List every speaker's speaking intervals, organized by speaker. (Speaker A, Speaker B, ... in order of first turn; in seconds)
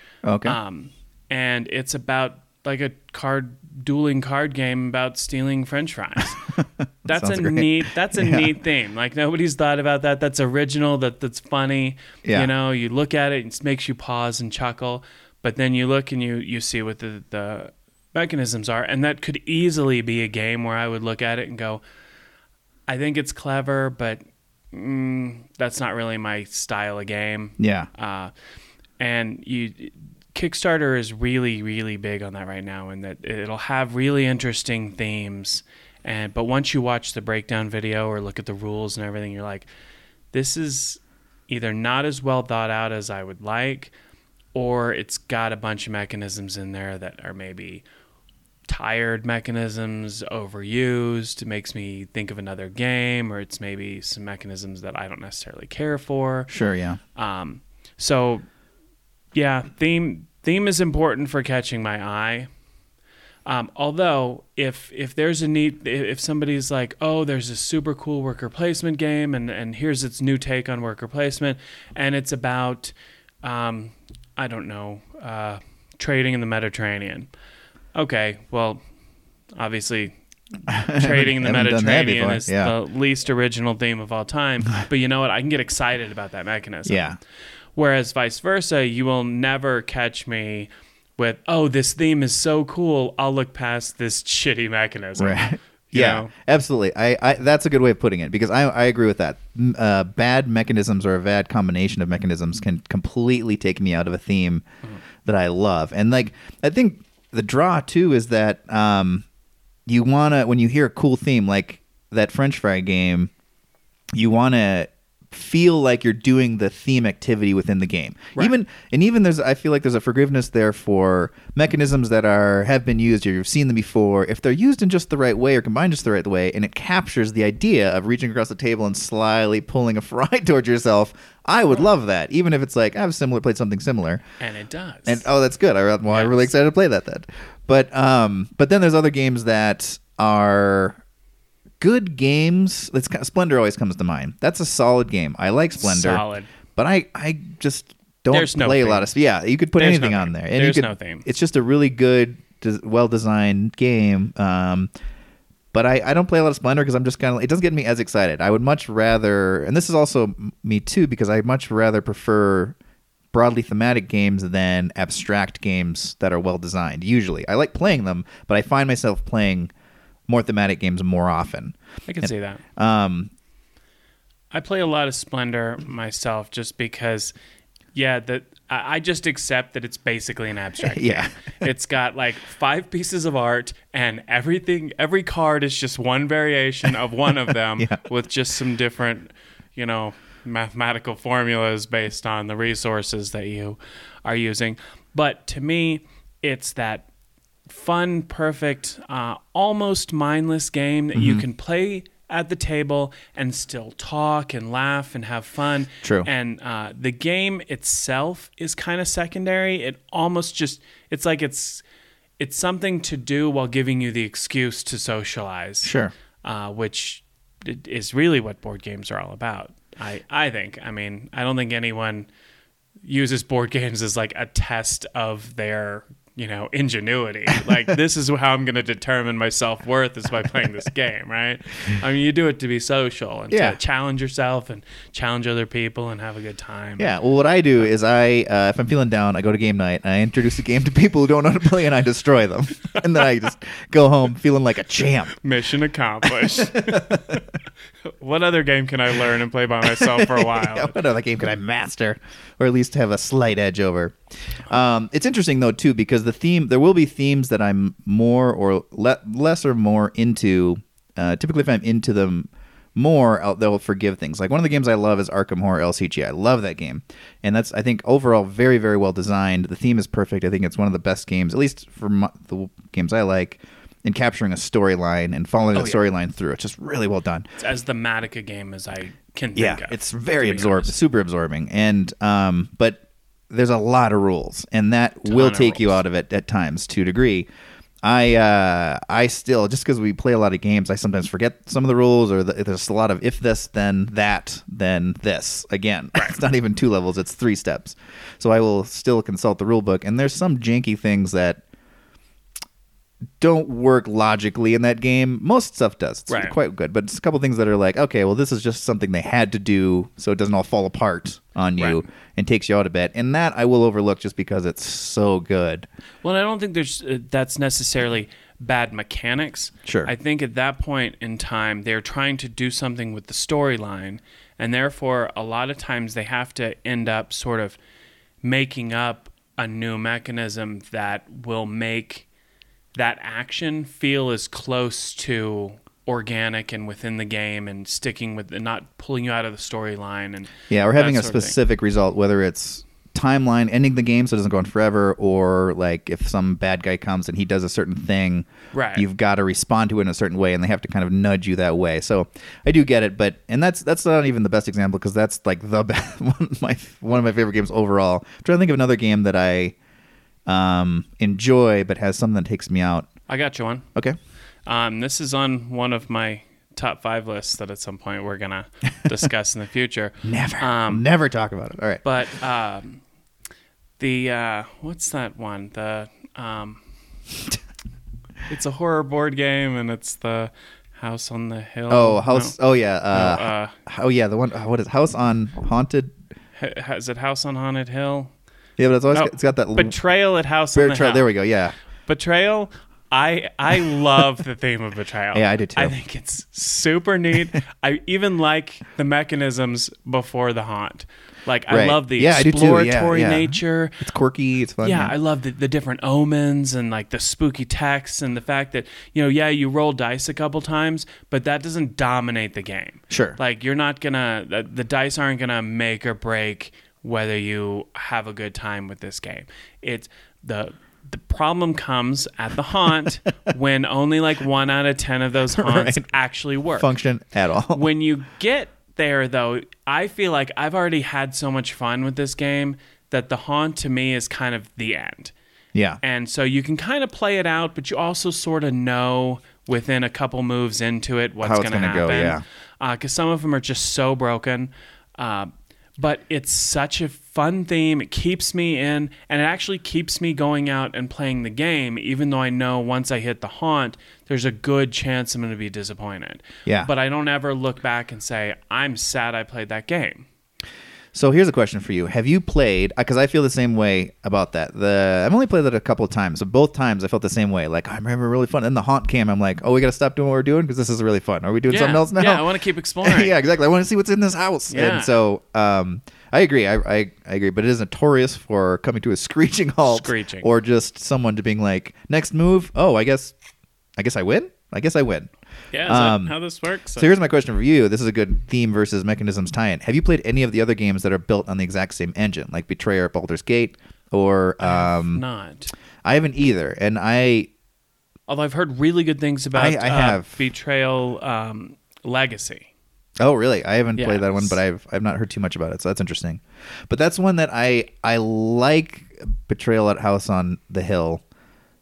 Speaker A: 0.2-0.6, 6.6-8.5, 12.2-12.5, 27.6-27.9, 56.5-57.0, 80.7-82.7, 86.8-87.2, 95.2-104.6, 105.2-109.2, 109.8-113.3, 114.1-134.2, 135.1-141.0, 141.8-146.2, 146.8-154.9, 155.7-162.8, 163.3-169.7, 170.3-173.3, 180.8-181.5, 201.1-201.4, 206.0-206.3, 215.8-216.1, 233.5-233.8, 237.0-245.3, 246.3-247.4, 249.8-277.4, 279.6-287.5, 288.0-301.6, 303.4-315.9, 319.9-320.1, 340.7-359.8, 360.4-363.1, 370.2-372.0, 381.9-386.1, 388.8-389.9, 390.7-391.7, 395.3-395.9, 401.7-405.1, 413.1-413.4, 425.5-426.0, 426.8-427.9, 435.7-436.0, 441.4-442.4, 456.6-456.9, 461.1-472.4, 473.0-483.4, 484.0-485.3, 485.8-486.4, 487.0-495.2, 496.0-497.5, 499.5-500.3, 503.2-511.2
Speaker B: 0.4-6.5, 7.0-21.8, 22.9-28.3, 29.0-39.7, 40.3-43.9, 44.5-47.8, 48.7-56.5, 57.1-58.5, 59.3-62.5, 63.5-77.3, 77.9-78.8, 79.6-80.2, 80.8-87.1, 87.7-96.3, 134.4-135.2, 136.1-136.5, 145.8-146.5, 148.3-149.1, 149.8-151.2, 172.1-172.6, 174.5-177.3, 177.9-197.1, 197.7-211.8, 212.4-222.3, 223.0-237.1, 245.3-247.4, 248.0-250.9, 275.7-276.0, 277.6-280.9, 285.2-286.0, 306.3-306.6, 311.8-312.0, 316.2-327.8, 328.4-332.2, 332.9-341.6, 348.7-349.1, 363.3-363.9, 364.6-371.0, 372.0-373.0, 374.0-376.8, 378.5-382.5, 383.1-383.8, 386.5-388.3, 389.1-391.3, 392.1-404.1, 404.8-426.9, 427.7-435.3, 436.0-460.2, 471.7-473.3, 474.7-475.1, 479.9-480.5, 485.7-487.1, 494.6-495.7, 498.3-502.7, 503.9-504.6